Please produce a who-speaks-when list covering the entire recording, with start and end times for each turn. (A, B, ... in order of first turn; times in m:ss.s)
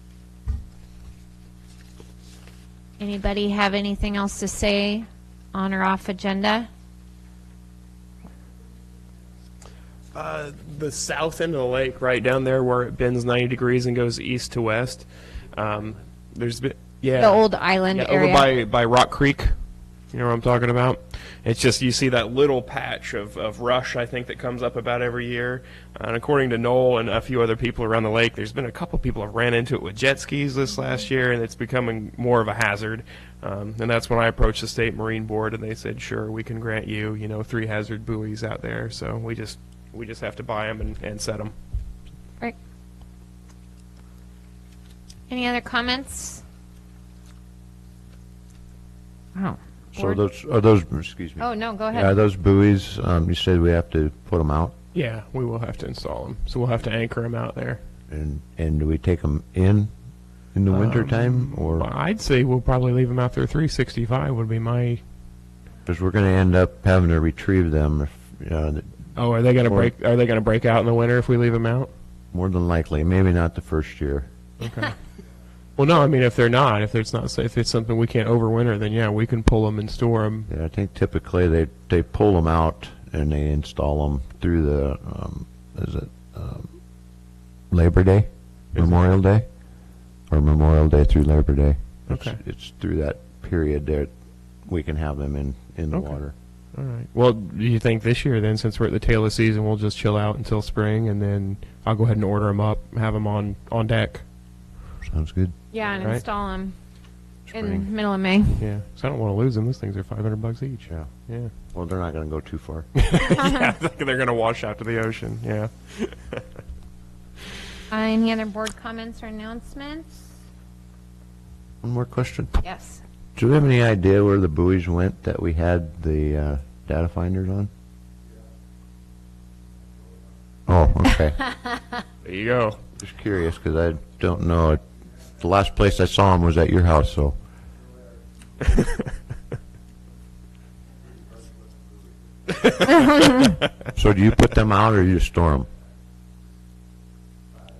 0:03.0-0:06.7 A
0:10.1-0:19.5 B
0:17.2-0:18.5 A
0:20.1-0:41.5 B
0:45.3-0:46.4 A
0:49.3-0:50.2 A
0:49.9-0:54.7 C
0:51.4-0:52.2 A
0:54.9-0:57.8 B
0:58.1-0:59.9 C
1:00.5-1:01.9 C
1:00.7-1:05.0 B
1:05.8-1:09.9 C
1:09.1-1:11.9 B
1:12.3-1:14.3 C
1:14.6-1:14.9 B
1:15.8-1:20.5 B
1:20.5-1:26.7 C
1:27.7-1:29.5 C
1:30.3-1:34.1 C
1:32.1-1:32.4 B
1:34.6-1:36.3 C
1:35.9-1:36.2 B
1:36.7-1:44.2 B
1:45.0-1:45.6 C
1:45.7-1:46.8 A
1:46.0-1:46.2 B
1:47.4-1:47.8 C
1:47.5-1:48.6 A
1:48.6-1:51.5 B
1:50.9-1:52.9 C
1:53.0-1:56.4 B
1:57.9-2:00.3 A
2:01.8-2:02.6 C
2:02.6-2:03.0 A
2:03.4-2:07.7 C
2:10.7-2:11.4 C
2:12.2-2:12.8 B
2:13.0-2:17.4 C
2:22.6-2:23.5 B
2:23.1-2:23.4 A
2:23.9-2:25.7 C